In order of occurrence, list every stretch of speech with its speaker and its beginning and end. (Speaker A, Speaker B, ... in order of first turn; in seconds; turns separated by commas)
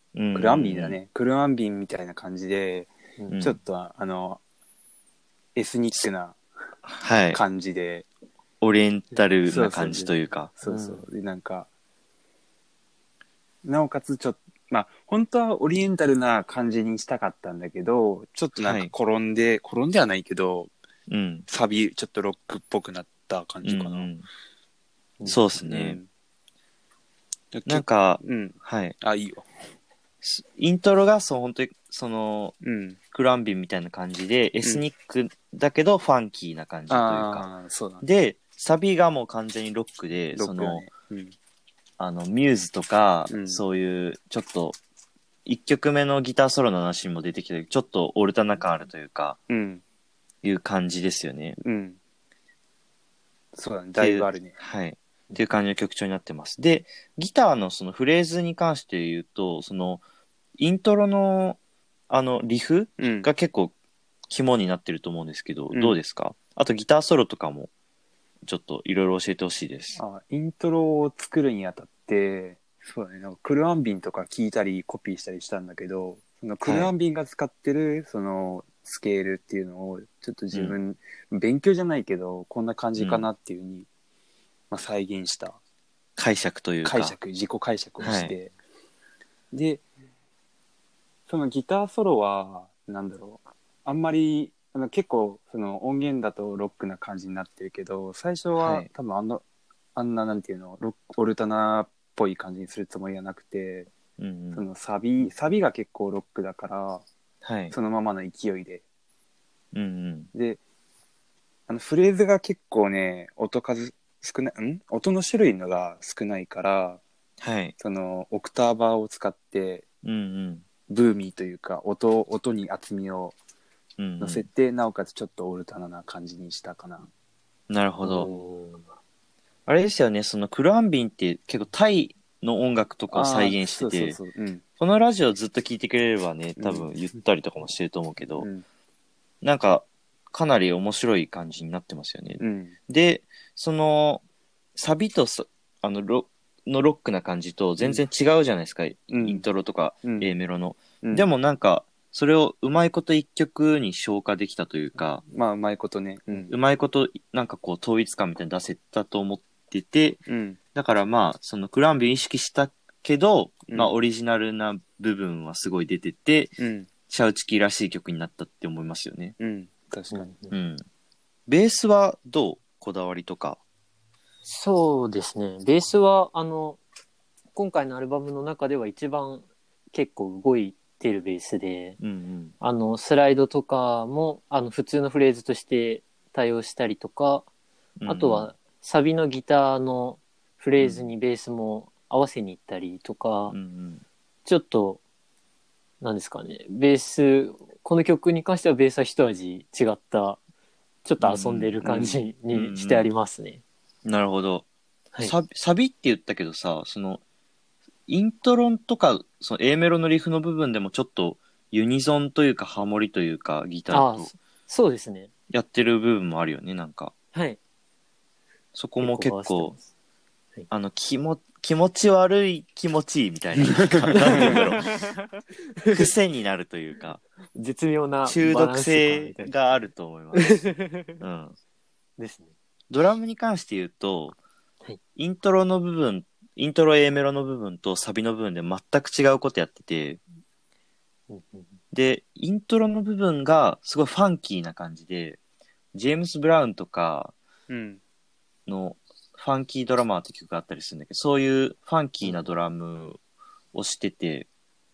Speaker A: 0.1-1.0, Speaker B: 0.3-4.4, Speaker A: 3.3-3.6, Speaker B: 5.5-6.4, Speaker A: 6.8-7.4, Speaker B: 7.3-8.1, Speaker A: 8.6-10.5, Speaker B: 9.4-11.7, Speaker C: 10.6-11.1, Speaker B: 13.6-20.7, Speaker A: 18.6-18.9, Speaker A: 21.1-21.4, Speaker B: 21.5-24.1, Speaker A: 23.6-24.2, Speaker A: 25.2-26.0, Speaker B: 25.6-26.1, Speaker B: 27.5-29.5, Speaker A: 27.6-28.9, Speaker A: 30.2-32.5, Speaker B: 32.6-33.0, Speaker A: 33.1-37.5, Speaker B: 36.9-38.0, Speaker A: 38.0-40.9, Speaker B: 40.3-41.3, Speaker A: 42.0-44.8, Speaker B: 43.3-43.6, Speaker A: 45.4-49.4, Speaker B: 49.5-49.8, Speaker A: 50.4-51.6, Speaker B: 51.6-52.0, Speaker B: 53.5-54.5, Speaker A: 54.0-60.0, Speaker A: 60.6-61.6, Speaker A: 62.1-63.7, Speaker B: 63.0-63.3, Speaker A: 64.3-67.7, Speaker B: 65.7-66.0, Speaker A: 68.5-70.0, Speaker B: 70.0-83.9, Speaker A: 76.6-76.9, Speaker A: 83.0-83.2, Speaker B: 84.7-85.6, Speaker A: 86.2-87.2, Speaker B: 86.8-88.5, Speaker A: 88.0-88.3, Speaker B: 89.5-89.8, Speaker B: 91.3-99.4, Speaker A: 98.6-98.9, Speaker B: 99.9-103.9, Speaker A: 104.2-104.6, Speaker B: 104.5-107.0, Speaker A: 107.4-107.7, Speaker B: 107.7-108.8, Speaker A: 109.7-110.3, Speaker B: 110.3-110.6, Speaker B: 111.7-117.0, Speaker A: 117.4-117.7, Speaker B: 117.8-119.8, Speaker A: 120.0-120.6, Speaker B: 120.9-123.3, Speaker A: 124.0-124.5, Speaker B: 124.2-127.1, Speaker A: 127.7-128.3, Speaker C: 128.0-128.8, Speaker A: 129.7-134.2, Speaker B: 133.1-134.6, Speaker A: 134.8-138.5, Speaker B: 136.6-136.9, Speaker A: 139.4-144.2, Speaker B: 142.4-142.7, Speaker A: 144.8-155.2, Speaker B: 149.1-149.4, Speaker B: 150.0-150.3, Speaker B: 155.3-156.5, Speaker A: 156.5-160.2, Speaker B: 160.3-160.6, Speaker A: 160.7-166.6, Speaker B: 163.7-163.9, Speaker B: 166.6-166.9, Speaker A: 167.1-169.3, Speaker B: 169.4-170.3, Speaker C: 170.1-170.5, Speaker A: 170.5-170.8, Speaker A: 171.5-173.6, Speaker C: 174.4-176.8, Speaker C: 177.5-182.0, Speaker A: 182.0-182.5, Speaker C: 182.6-187.5, Speaker A: 188.0-188.5, Speaker C: 188.1-193.5, Speaker A: 190.8-191.1, Speaker A: 193.5-194.0, Speaker C: 194.4-195.0, Speaker C: 196.0-200.4, Speaker C: 201.0-203.6, Speaker A: 201.2-203.1, Speaker B: 201.8-202.2, Speaker A: 204.0-204.7, Speaker A: 205.2-207.2, Speaker A: 208.1-214.3, Speaker C: 213.9-215.3, Speaker A: 215.5-217.1, Speaker C: 217.3-217.6, Speaker A: 218.7-219.8, Speaker C: 219.0-219.8, Speaker A: 220.7-224.9, Speaker C: 224.1-225.2, Speaker C: 225.8-226.0, Speaker A: 225.9-227.2, Speaker C: 227.5-229.5, Speaker A: 228.2-230.6, Speaker C: 230.3-231.1, Speaker A: 231.2-231.6, Speaker C: 232.2-232.5, Speaker A: 232.9-234.4, Speaker A: 235.2-240.2, Speaker C: 241.3-241.8, Speaker A: 241.9-245.4, Speaker A: 245.9-247.3, Speaker B: 247.7-248.0, Speaker A: 248.7-253.2, Speaker A: 253.7-254.5